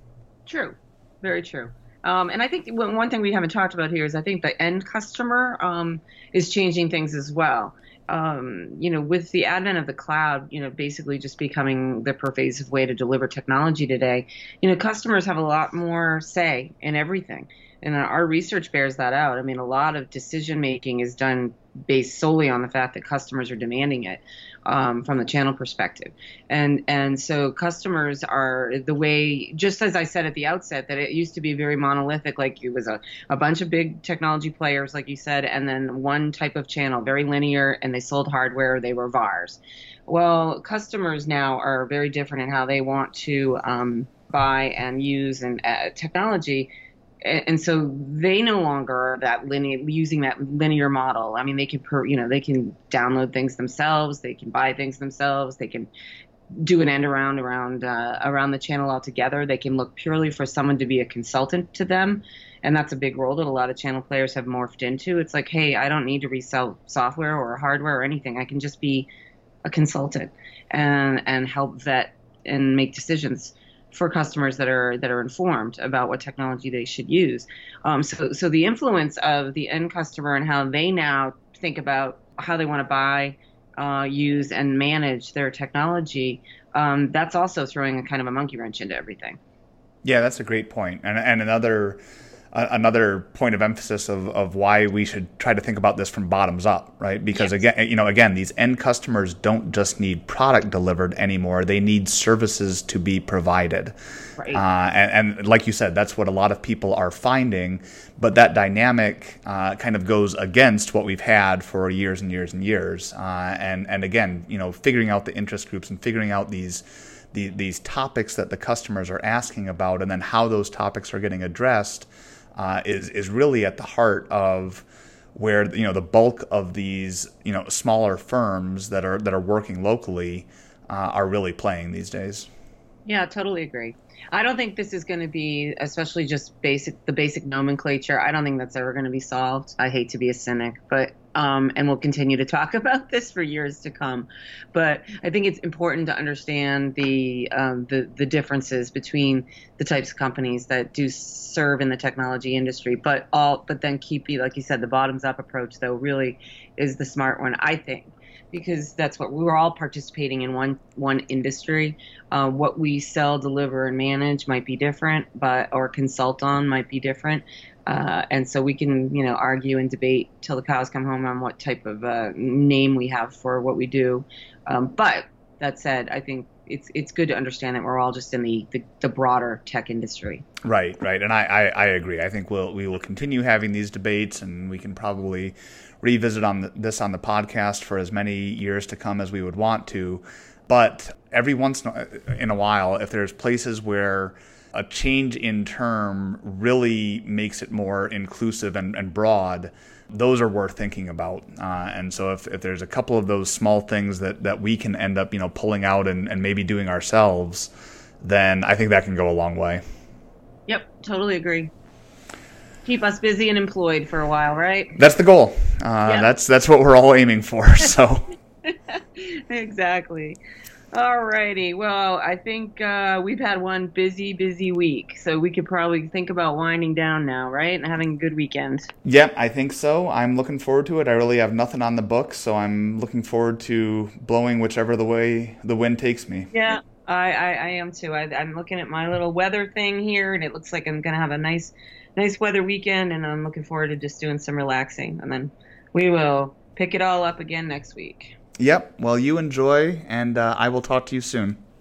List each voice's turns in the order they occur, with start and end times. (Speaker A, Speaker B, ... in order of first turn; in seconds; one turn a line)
Speaker A: 0.5-46.7
Speaker A: 47.2-55.9
Speaker A: 56.5-69.1
Speaker A: 69.7-89.4
Speaker B: 90.0-92.0
Speaker B: 92.5-103.9
Speaker A: 97.3-97.6
Speaker B: 104.5-132.5
Speaker A: 133.1-180.4
Speaker B: 180.6-207.7
Speaker B: 208.2-209.8
Speaker A: 210.7-211.7
Speaker A: 212.8-214.9
Speaker B: 215.0-218.3
Speaker A: 216.1-216.3
Speaker A: 218.7-220.4
Speaker A: 220.9-228.9
Speaker B: 229.1-236.5
Speaker A: 236.5-248.3
Speaker B: 248.6-251.6